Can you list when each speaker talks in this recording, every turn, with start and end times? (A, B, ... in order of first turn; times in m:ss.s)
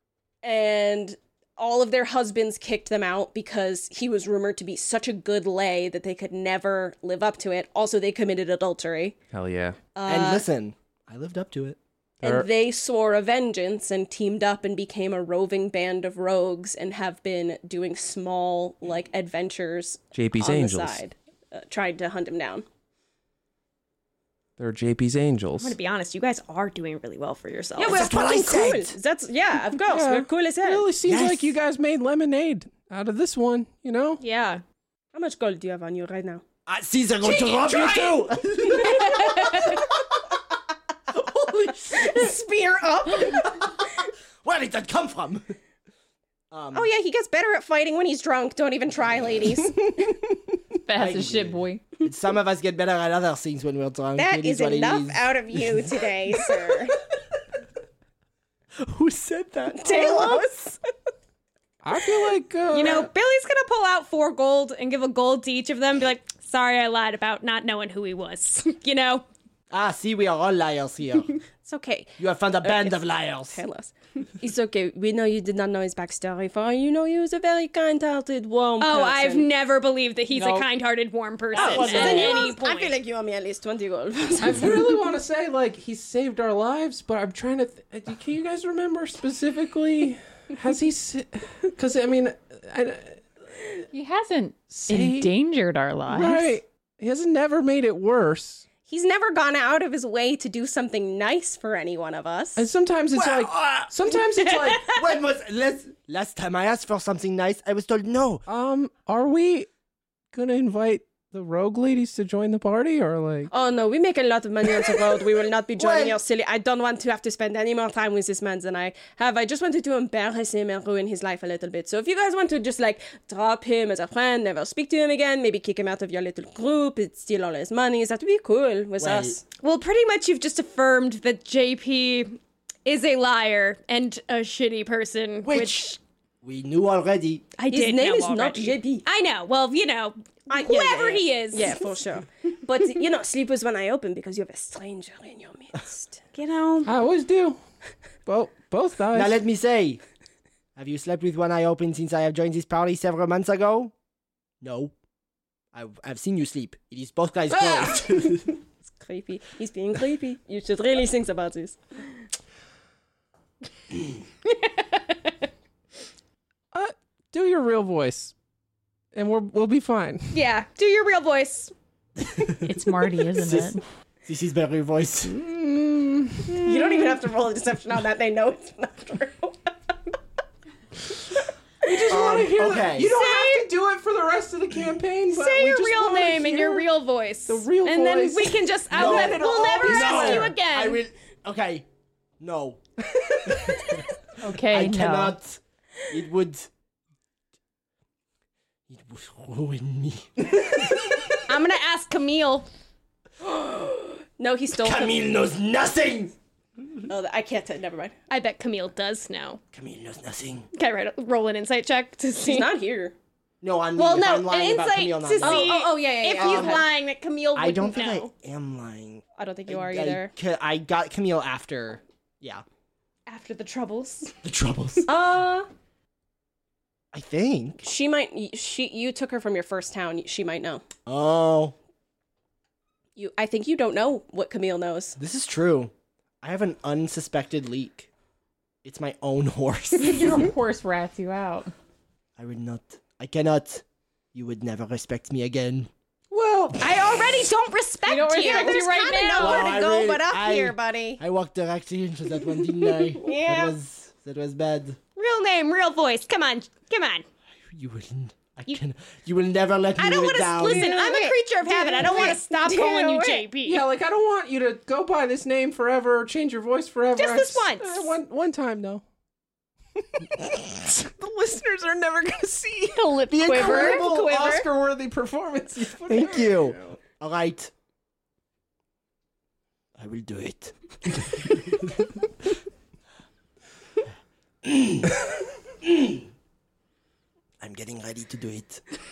0:00.4-0:09.1 A
0:09.3-0:09.8 B
0:09.9-0:10.4 A
0:10.0-0:11.8 C
0:12.2-0:12.5 B
0:12.2-0:22.6 A
0:20.1-0:21.0 B
0:24.6-0:25.7 B
0:25.6-0:28.0 D
0:27.8-0:30.8 A
0:27.9-0:28.9 C
0:29.9-0:34.2 B
0:31.0-0:31.6 C
0:34.2-0:34.6 D
0:35.1-0:36.4 A
0:36.6-0:39.8 C
0:37.3-0:38.0 A
0:38.6-0:39.6 A
0:39.0-0:39.8 D
0:41.1-0:42.3 C
0:41.4-0:43.9 A
0:44.4-0:45.5 C
0:46.5-0:46.9 C
0:46.7-0:50.1 A
0:50.8-0:51.8 E
0:51.0-0:56.7 C
0:54.2-0:57.0 A
0:58.8-1:00.8 C
0:59.7-1:00.6 A
1:01.8-1:03.1 B
1:02.7-1:09.2 D
1:09.7-1:11.3 C
1:11.6-1:19.5 A
1:12.2-1:13.6 C
1:18.8-1:22.9 D
1:20.3-1:20.7 E
1:21.5-1:25.0 A
1:21.6-1:22.5 C
1:21.7-1:22.2 E
1:24.4-1:33.2 B
1:33.9-1:36.6 E
1:34.7-1:35.3 B
1:36.1-1:38.6 B
1:38.9-1:42.6 A
1:42.6-1:44.9 B
1:43.1-1:43.9 C
1:44.6-1:44.9 D
1:44.8-1:48.4 C
1:48.5-1:49.7 B
1:50.3-1:53.5 B
1:53.5-2:09.4 A
1:55.8-1:56.2 C
2:09.0-2:09.4 C
2:09.5-2:16.0 D
2:15.4-2:17.4 C
2:17.6-2:21.9 D
2:17.7-2:19.0 A
2:20.5-2:26.2 A
2:26.3-2:26.9 D
2:26.8-2:27.6 B
2:28.2-2:29.4 B
2:29.1-2:30.0 C
2:30.8-2:33.9 C
2:34.6-2:34.9 C
2:35.7-2:38.5 C
2:37.5-2:38.1 B
2:39.0-2:41.8 A
2:46.7-2:48.3 B
2:49.1-2:50.3 B
2:50.3-2:51.7 D
2:52.2-2:55.4 C
2:52.6-2:53.8 E
2:55.3-2:57.0 B
2:56.5-2:59.9 A
3:01.8-3:06.8 B
3:02.1-3:03.2 C
3:03.1-3:03.7 D
3:05.3-3:11.0 D
3:07.5-3:10.6 B
3:08.9-3:11.8 C
3:12.4-3:14.0 C
3:14.4-3:15.4 E
3:14.6-3:15.6 C
3:16.1-3:16.7 C
3:18.9-3:21.4 C
3:21.4-3:22.7 D
3:23.4-3:25.2 A
3:24.8-3:26.3 C
3:27.1-3:28.2 A
3:28.3-3:29.6 D
3:29.7-3:30.7 C
3:30.7-3:32.7 D
3:32.4-3:33.1 A
3:33.6-3:35.8 C
3:34.0-3:38.3 D
3:35.4-3:36.9 A
3:36.4-3:36.9 C
3:37.5-3:42.6 C
3:39.4-3:40.3 A
3:43.3-3:44.3 D
3:44.4-3:45.1 C
3:45.0-3:45.7 A
3:47.1-3:47.8 C
3:47.8-3:50.8 A
3:51.0-3:51.7 C
3:53.2-3:55.2 A
3:55.2-3:58.1 C
3:58.8-4:00.5 C
4:00.0-4:01.7 E
4:02.4-4:05.9 C
4:06.3-4:06.8 B
4:06.8-4:09.8 D
4:08.0-4:09.6 E
4:08.4-4:11.2 A
4:09.3-4:15.0 C
4:12.9-4:13.7 A
4:15.2-4:17.2 D
4:17.7-4:20.9 C
4:20.0-4:23.8 D
4:20.6-4:23.5 A
4:23.6-4:29.0 B
4:27.2-4:28.1 D
4:30.1-4:37.0 B
4:32.9-4:34.7 D
4:33.4-4:34.2 C
4:36.0-4:37.7 C
4:40.0-4:41.9 C
4:44.6-4:45.2 C
4:45.8-4:46.2 C
4:47.6-4:48.8 C